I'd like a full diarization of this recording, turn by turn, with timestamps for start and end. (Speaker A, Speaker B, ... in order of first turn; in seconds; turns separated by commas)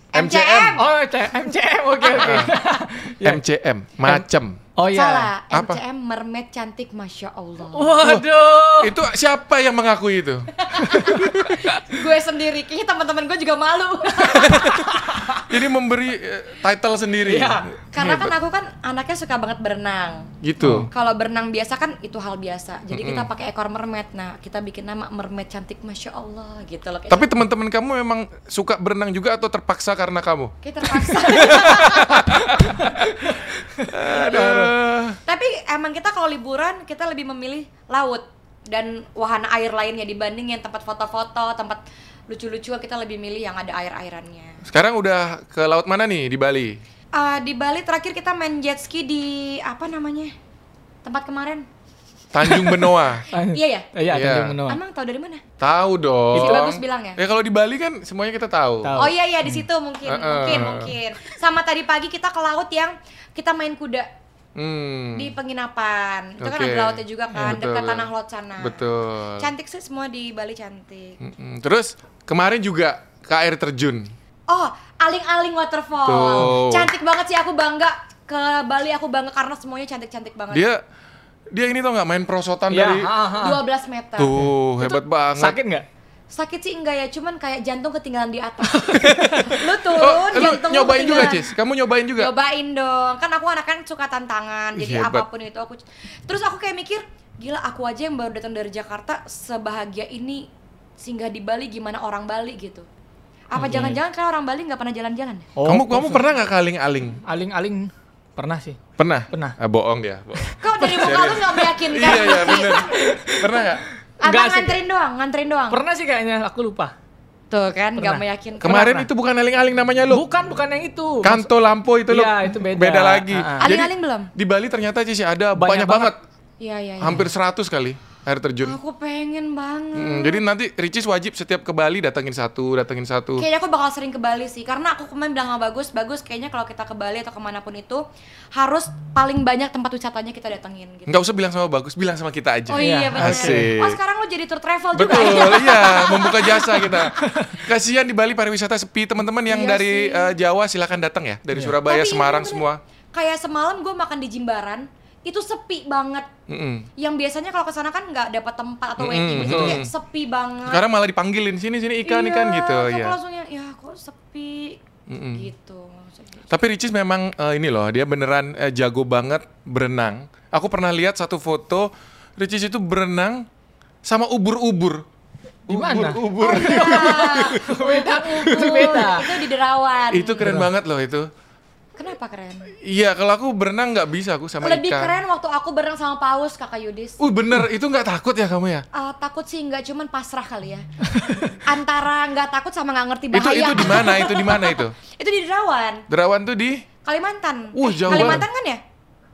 Speaker A: 0.1-0.8, Speaker B: 0.1-0.8, Speaker C: 0.8-3.4, Speaker A: 2.0-2.6, Speaker B: 2.2-2.5, Speaker B: 3.2-4.6, Speaker C: 4.8-5.3, Speaker A: 4.9-8.0, Speaker B: 5.5-5.8, Speaker C: 7.7-8.9, Speaker B: 8.0-11.6, Speaker A: 10.6-15.4, Speaker C: 10.8-11.8, Speaker B: 14.4-18.3, Speaker C: 15.1-15.4, Speaker C: 17.2-17.7, Speaker A: 17.9-20.3, Speaker B: 20.4-20.9, Speaker C: 20.6-20.9, Speaker A: 20.9-27.3, Speaker B: 22.9-23.3, Speaker B: 27.1-35.2, Speaker A: 30.6-32.9, Speaker C: 33.8-34.7, Speaker A: 35.2-44.6, Speaker B: 44.7-46.8, Speaker A: 47.1-50.3, Speaker A: 51.0-51.6, Speaker B: 52.3-53.2, Speaker C: 52.5-54.8, Speaker A: 53.3-53.9, Speaker B: 54.1-54.6, Speaker A: 54.6-55.4, Speaker B: 55.6-59.0, Speaker A: 56.3-57.2, Speaker C: 56.3-56.7, Speaker C: 58.8-59.1, Speaker A: 58.9-64.1, Speaker B: 60.0-60.9, Speaker B: 64.5-65.3, Speaker A: 65.1-68.9, Speaker B: 66.4-69.5, Speaker A: 69.4-71.2, Speaker B: 71.2-74.1, Speaker A: 74.5-80.7, Speaker B: 76.0-76.9, Speaker B: 80.5-80.8, Speaker B: 81.5-83.1, Speaker C: 82.7-83.6, Speaker A: 83.3-84.4, Speaker B: 84.2-85.6, Speaker C: 85.4-85.8, Speaker A: 86.3-91.5, Speaker C: 88.7-89.6, Speaker B: 89.0-92.3, Speaker A: 92.2-100.5, Speaker B: 94.7-95.2, Speaker A: 101.0-102.9, Speaker A: 103.5-105.5, Speaker C: 103.6-104.0, Speaker C: 105.5-106.2, Speaker B: 105.6-107.2, Speaker C: 107.2-108.8, Speaker B: 109.0-113.8, Speaker C: 109.3-109.5, Speaker C: 110.4-111.4, Speaker A: 110.6-112.9, Speaker C: 112.1-114.8, Speaker A: 114.2-115.8, Speaker C: 115.7-116.9, Speaker A: 117.5-119.0, Speaker C: 118.0-119.0, Speaker B: 118.6-120.2, Speaker C: 120.1-121.5, Speaker B: 121.2-126.2, Speaker C: 122.1-123.7, Speaker A: 123.6-124.3, Speaker C: 125.5-126.1, Speaker A: 126.6-127.3, Speaker B: 127.0-128.8, Speaker A: 128.6-130.4, Speaker B: 129.9-133.4, Speaker A: 133.4-138.0, Speaker A: 138.5-141.2, Speaker B: 141.1-144.0, Speaker A: 142.7-147.4, Speaker C: 142.8-143.7, Speaker B: 144.9-152.8, Speaker C: 147.2-147.6, Speaker A: 149.5-150.3, Speaker A: 151.8-156.3, Speaker B: 156.5-156.9, Speaker A: 157.0-160.8, Speaker B: 159.0-159.9, Speaker C: 159.3-159.8, Speaker B: 160.7-163.2, Speaker A: 162.0-166.5, Speaker B: 165.1-165.5, Speaker B: 166.5-173.5, Speaker B: 174.0-175.0, Speaker B: 175.7-177.6, Speaker C: 175.7-179.5, Speaker A: 176.4-180.5, Speaker B: 180.1-181.3, Speaker C: 180.4-180.7, Speaker A: 182.0-182.7, Speaker B: 182.8-185.1, Speaker A: 184.6-187.2, Speaker B: 187.2-188.8, Speaker A: 188.9-190.9, Speaker C: 191.1-191.6, Speaker A: 191.4-196.1, Speaker B: 193.3-194.9, Speaker B: 196.1-196.8, Speaker A: 197.0-198.8, Speaker B: 197.7-198.4, Speaker C: 198.1-198.4